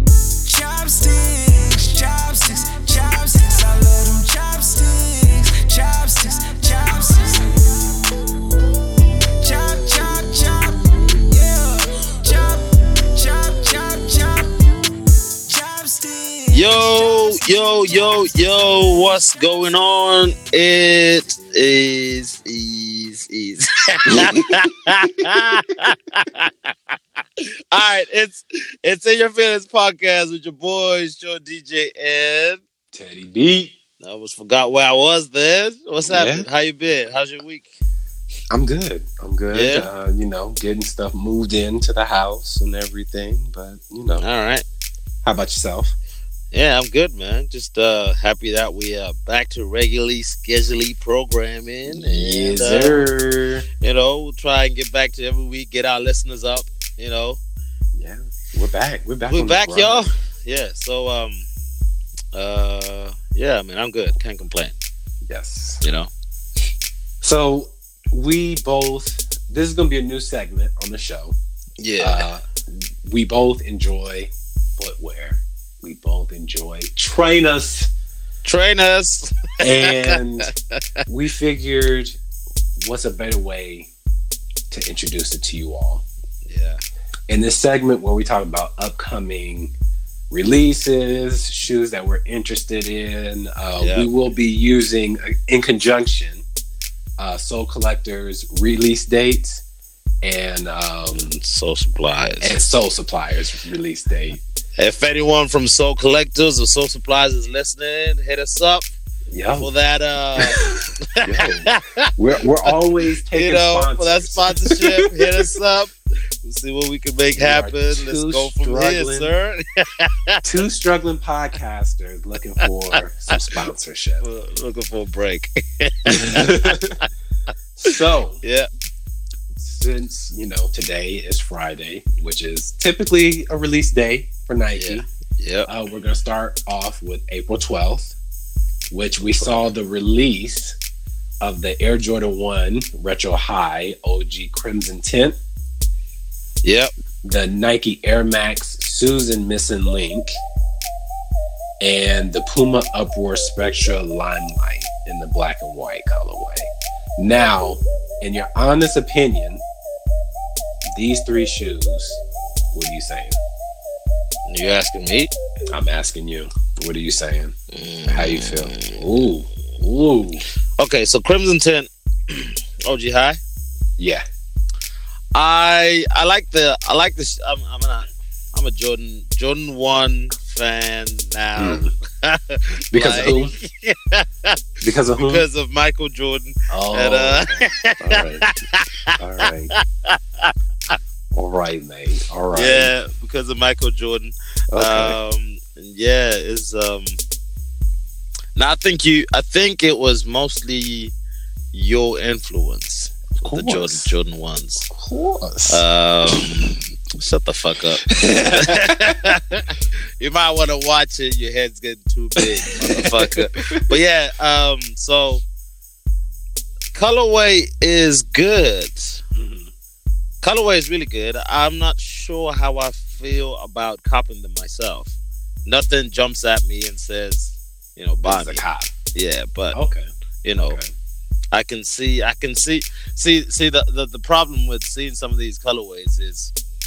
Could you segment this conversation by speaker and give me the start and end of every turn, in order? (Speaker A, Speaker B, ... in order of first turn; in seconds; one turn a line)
Speaker A: 0.4-8.1
Speaker A: 9.4-19.7
Speaker B: 16.5-26.7
Speaker C: 24.1-24.4
Speaker B: 27.7-32.6
Speaker C: 32.9-33.7
Speaker B: 34.0-37.7
Speaker C: 36.1-36.5
Speaker C: 38.5-44.2
Speaker B: 39.5-39.9
Speaker B: 44.2-44.6
Speaker C: 45.2-46.0
Speaker B: 46.5-53.1
Speaker C: 51.9-53.6
Speaker B: 53.8-57.4
Speaker C: 57.9-60.1
Speaker B: 59.3-61.5
Speaker B: 62.3-64.7
Speaker C: 65.2-65.8
Speaker B: 65.8-66.1
Speaker C: 67.2-71.3
Speaker B: 71.8-72.3
Speaker C: 72.0-77.9
Speaker B: 78.4-80.8
Speaker C: 79.6-80.5
Speaker C: 81.1-82.2
Speaker C: 82.8-83.9
Speaker C: 84.7-86.0
Speaker B: 86.5-86.8
Speaker C: 87.3-89.7
Speaker C: 90.3-96.4
Speaker B: 93.8-94.1
Speaker C: 97.2-99.6
Speaker C: 100.2-101.3
Speaker B: 101.1-102.6
Speaker C: 102.4-104.4
Speaker B: 104.8-108.9
Speaker C: 109.3-109.7
Speaker B: 109.6-112.1
Speaker C: 110.4-115.5
Speaker B: 113.3-120.4
Speaker C: 117.3-119.3
Speaker C: 120.4-124.2
Speaker B: 122.6-123.6
Speaker B: 124.2-126.9
Speaker C: 126.1-127.0
Speaker C: 127.8-128.4
Speaker B: 128.4-128.7
Speaker C: 129.5-135.0
Speaker B: 134.7-135.7
Speaker C: 135.7-138.1
Speaker C: 138.9-140.8
Speaker B: 139.3-139.6
Speaker C: 141.4-145.4
Speaker B: 146.6-146.9
Speaker C: 147.2-150.4
Speaker C: 151.8-159.6
Speaker C: 160.9-162.2
Speaker C: 162.7-163.4
Speaker B: 164.5-165.3
Speaker C: 165.7-167.5
Speaker B: 167.7-169.0
Speaker C: 168.1-170.4
Speaker B: 170.8-173.4
Speaker C: 174.0-174.2
Speaker B: 175.3-184.6
Speaker C: 181.6-181.9
Speaker C: 182.9-183.5
Speaker C: 184.8-185.4
Speaker B: 185.2-191.0
Speaker C: 186.7-188.5
Speaker C: 189.1-189.7
Speaker C: 191.3-192.9
Speaker B: 192.5-197.2
Speaker C: 194.7-195.2
Speaker B: 198.6-201.1
Speaker B: 201.7-204.9
Speaker C: 203.4-204.1
Speaker C: 204.9-206.5
Speaker B: 205.7-215.4
Speaker C: 208.1-209.2
Speaker C: 212.4-213.9
Speaker B: 216.9-219.2
Speaker C: 219.3-219.7
Speaker B: 220.4-228.6
Speaker C: 228.2-228.9
Speaker B: 229.1-229.8
Speaker C: 229.7-230.9
Speaker B: 230.4-230.8
Speaker B: 231.5-236.5